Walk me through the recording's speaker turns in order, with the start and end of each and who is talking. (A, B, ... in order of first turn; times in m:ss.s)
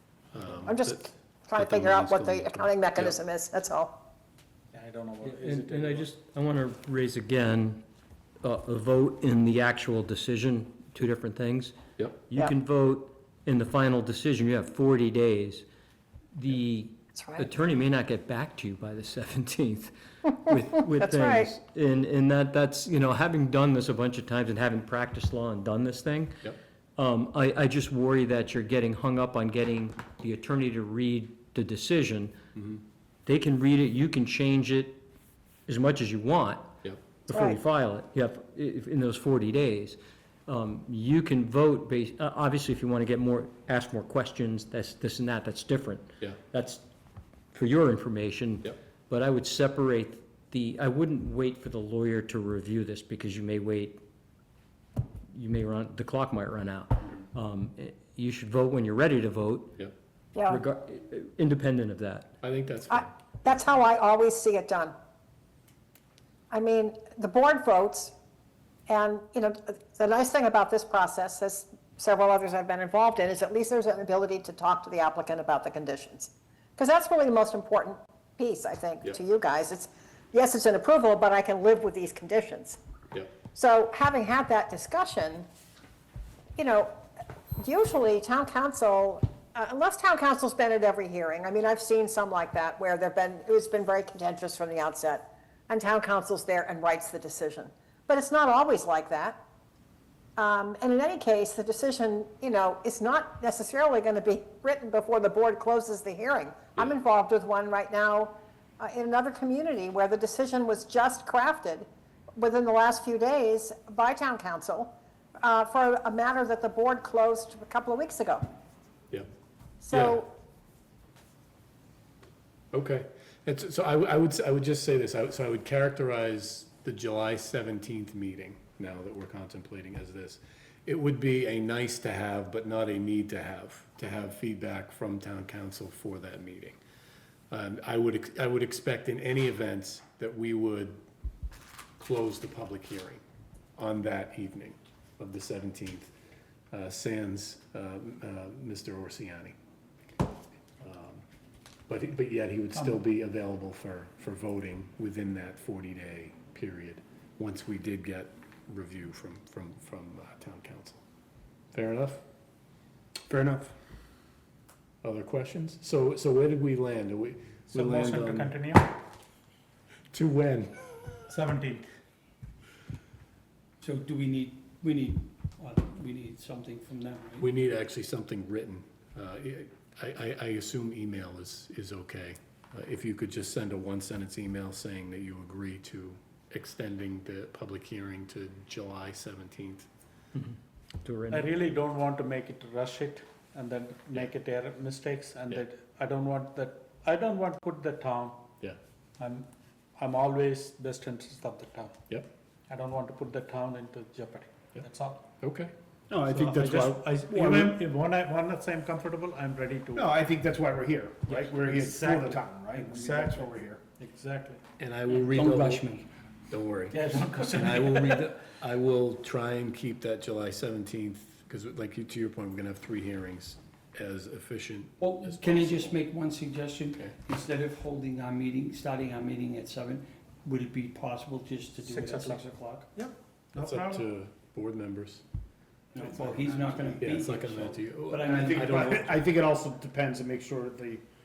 0:00.3-0:03.2 A
0:00.6-0:04.0 B
0:04.7-0:06.0 C
0:05.2-0:07.8 D
0:08.4-0:15.6 D
0:16.3-0:32.3 D
0:17.1-0:17.5 B
0:21.0-0:21.5 B
0:32.5-0:32.8 A
0:33.2-0:35.0 D
0:35.7-0:36.7 D
0:37.2-0:46.8 D
0:37.3-0:37.6 B
0:47.5-0:54.0 D
0:55.3-0:59.8 D
1:00.3-1:00.6 B
1:00.5-1:02.3 D
1:02.4-1:03.1 A
1:02.9-1:04.9 B
1:06.5-1:08.1 B
1:08.9-1:22.8 B
1:23.5-1:25.5 B
1:26.6-1:27.0 B
1:27.6-1:39.4 B
1:40.4-1:58.4 B
1:59.8-2:00.3 B
1:59.9-2:00.2 A
2:02.7-2:16.8 A
2:17.5-2:21.0 A
2:22.0-2:23.2 A
2:23.8-2:26.1 A
2:26.7-2:29.5 A
2:30.8-2:31.2 A
2:31.9-2:41.0 A
2:41.7-2:42.2 A
2:43.3-2:43.7 A
2:45.0-2:48.6 A
2:47.7-2:48.8 C
2:50.1-2:51.1 A
2:51.3-2:51.8 C
2:53.8-2:57.5 E
2:57.4-3:09.9 A
3:10.3-3:11.7 D
3:11.4-3:18.4 C
3:19.2-3:19.4 C
3:20.0-3:21.9 C
3:22.7-3:25.2 C
3:25.4-3:25.7 A
3:26.1-3:27.8 F
3:26.3-3:30.0 C
3:29.9-3:33.8 F
3:33.0-3:34.6 C
3:34.8-3:35.9 A
3:35.3-3:36.0 E
3:36.5-3:46.0 A
3:37.1-3:37.4 E
3:37.2-3:37.6 C
3:45.0-3:53.1 E
3:51.9-3:52.4 C
3:53.5-3:55.2 A
3:55.9-3:59.0 E
3:56.0-3:57.1 F
3:57.0-3:59.1 A
3:58.2-4:01.0 F